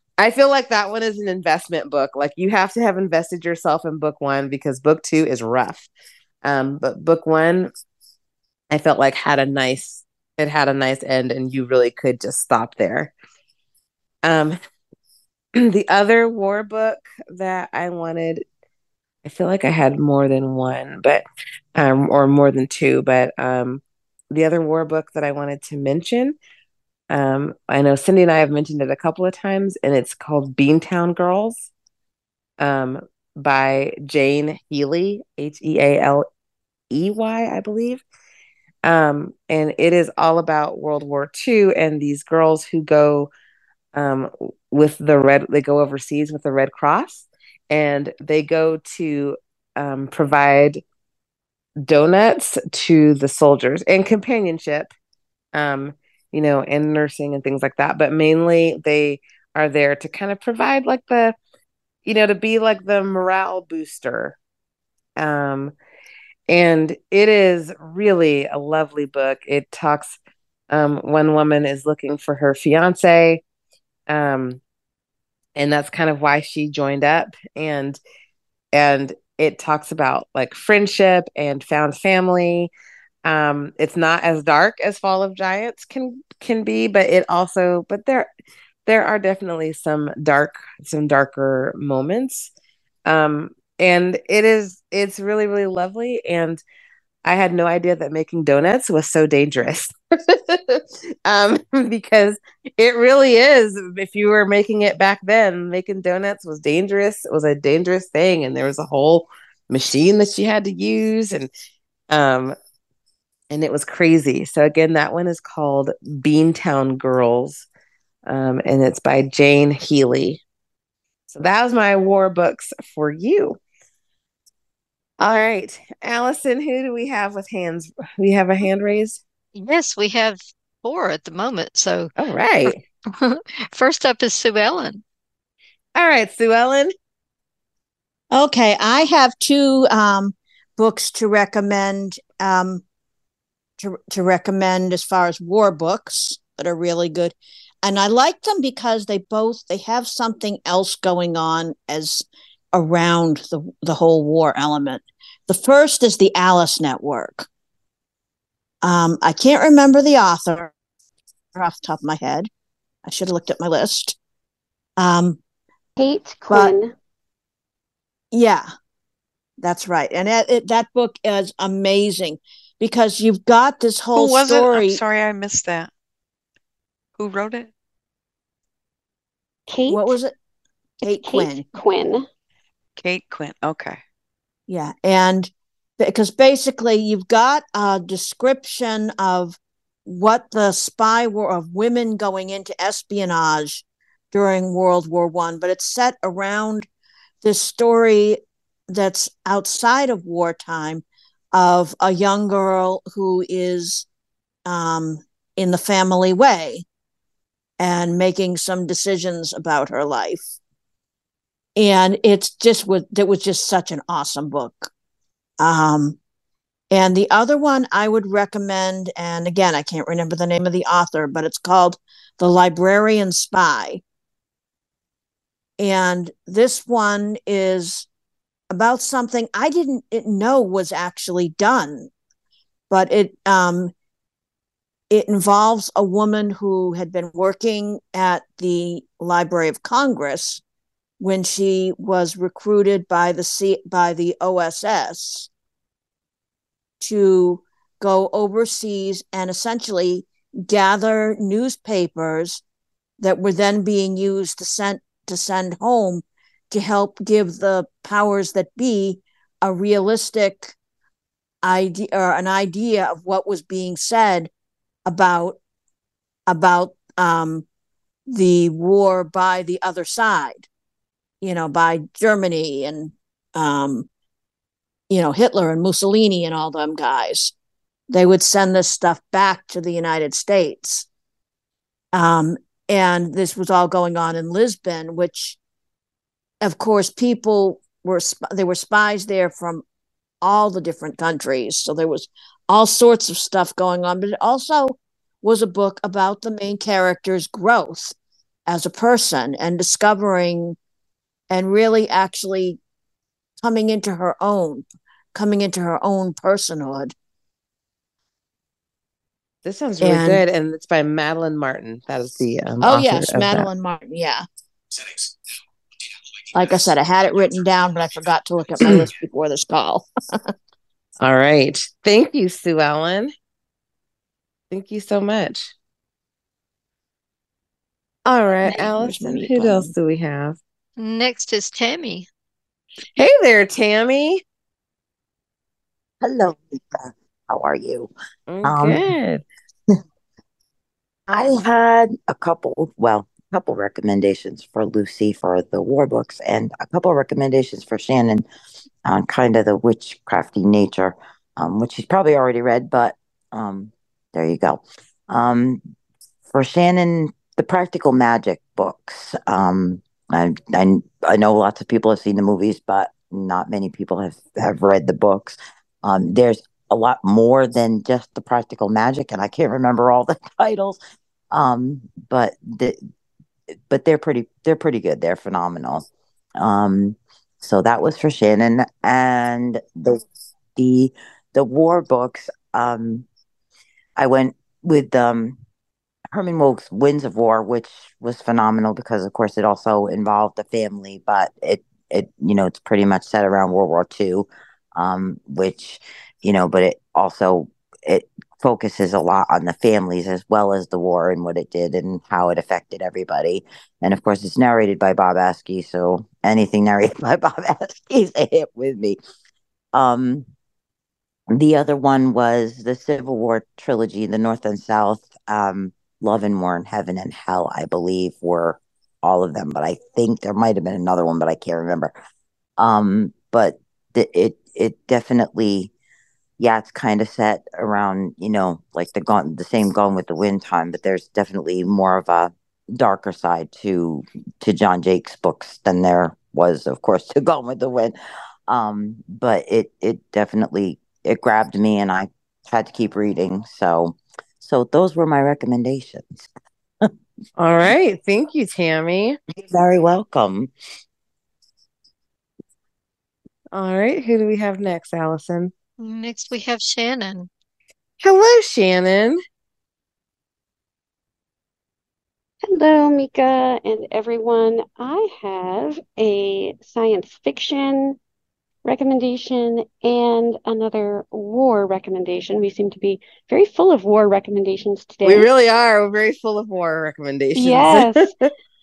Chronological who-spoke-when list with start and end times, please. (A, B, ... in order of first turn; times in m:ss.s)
0:00.2-0:05.9 A
0:06.4-0:07.7 A
0:08.7-0:13.1 A
0:14.2-0:14.6 A
0:15.6-0:18.4 A
0:19.2-0:21.2 A
0:21.8-0:26.4 A
0:27.1-0:31.7 A
0:32.6-0:36.2 A
0:36.9-0:38.0 A
0:38.8-0:43.3 A
0:43.9-0:50.8 A
0:51.8-0:54.9 A
0:55.5-1:01.3 A
1:02.0-1:04.4 A
1:05.2-1:05.7 A
1:06.5-1:10.2 A
1:10.7-1:13.4 A
1:14.1-1:14.6 A
1:15.6-1:18.0 A
1:18.7-1:22.7 A
1:23.2-1:28.3 A
1:28.8-1:32.5 A
1:33.0-1:36.6 A
1:37.2-1:51.5 A
1:52.1-1:52.5 A
1:53.5-1:57.6 A
1:58.3-2:00.4 A
2:01.3-2:03.6 A
2:05.2-2:09.2 A
2:09.6-2:12.1 B
2:12.2-2:12.8 A
2:13.2-2:15.0 B
2:16.0-2:16.9 A
2:18.3-2:22.8 C
2:23.8-2:37.5 C
2:38.8-2:40.7 C
2:41.5-2:42.5 C
2:43.0-2:44.2 C
2:45.0-2:45.4 C
2:46.0-2:46.9 D
2:48.3-2:48.7 C
2:49.6-2:55.0 C
2:54.1-2:55.9 E
2:57.2-2:57.7 E
2:59.7-3:00.1 D
2:59.9-3:00.3 C
3:01.0-3:01.6 C
3:01.0-3:02.2 D
3:03.0-3:04.0 E
3:04.7-3:16.9 C
3:17.4-3:24.0 C
3:24.6-3:26.8 C
3:27.8-3:30.5 C
3:31.8-3:34.9 C
3:35.6-3:36.2 C
3:36.9-3:44.0 C
3:45.8-3:48.0 C
3:48.7-3:52.1 C
3:52.9-3:53.9 C
3:55.1-4:00.6 C
4:01.2-4:05.5 C
4:07.0-4:12.6 C
4:13.2-4:20.7 C
4:21.6-4:24.5 C
4:25.0-4:25.6 C
4:26.5-4:27.6 C
4:28.3-4:30.7 C
4:31.4-4:34.1 C
4:35.1-4:37.5 C
4:38.1-4:41.1 C
4:42.1-4:45.6 C
4:46.6-4:49.8 C
4:50.4-4:58.1 C
4:58.7-5:00.8 C
5:01.5-5:02.8 C
5:03.6-5:07.1 C
5:09.6-5:13.7 A
5:10.0-5:10.4 C
5:12.8-5:14.4 C
5:16.5-5:20.5 C
5:21.2-5:23.3 A
5:24.7-5:25.7 A
5:28.2-5:30.6 A
5:28.6-5:29.9 C
5:31.0-5:32.3 B
5:33.2-5:34.4 A
5:36.2-5:38.1 F
5:38.5-5:39.4 A
5:38.6-5:39.1 F
5:41.3-5:48.4 F
5:49.0-5:55.8 F
5:56.5-6:11.0 F
6:11.5-6:13.0 F
6:13.9-6:20.2 F
6:20.8-6:23.2 F
6:24.2-6:25.6 F
6:26.3-6:49.2 F
6:49.9-6:50.4 F
6:51.5-7:02.1 F
7:02.8-7:05.9 F
7:06.6-7:18.1 F
7:18.7-7:26.4 F
7:27.6-7:29.4 A
7:29.6-7:30.7 F
7:33.7-7:35.7 A
7:36.0-7:37.5 B
7:38.2-7:39.4 A
7:42.7-7:48.2 D
7:48.8-7:55.5 D
7:55.2-7:58.3 A
7:57.5-7:58.3 D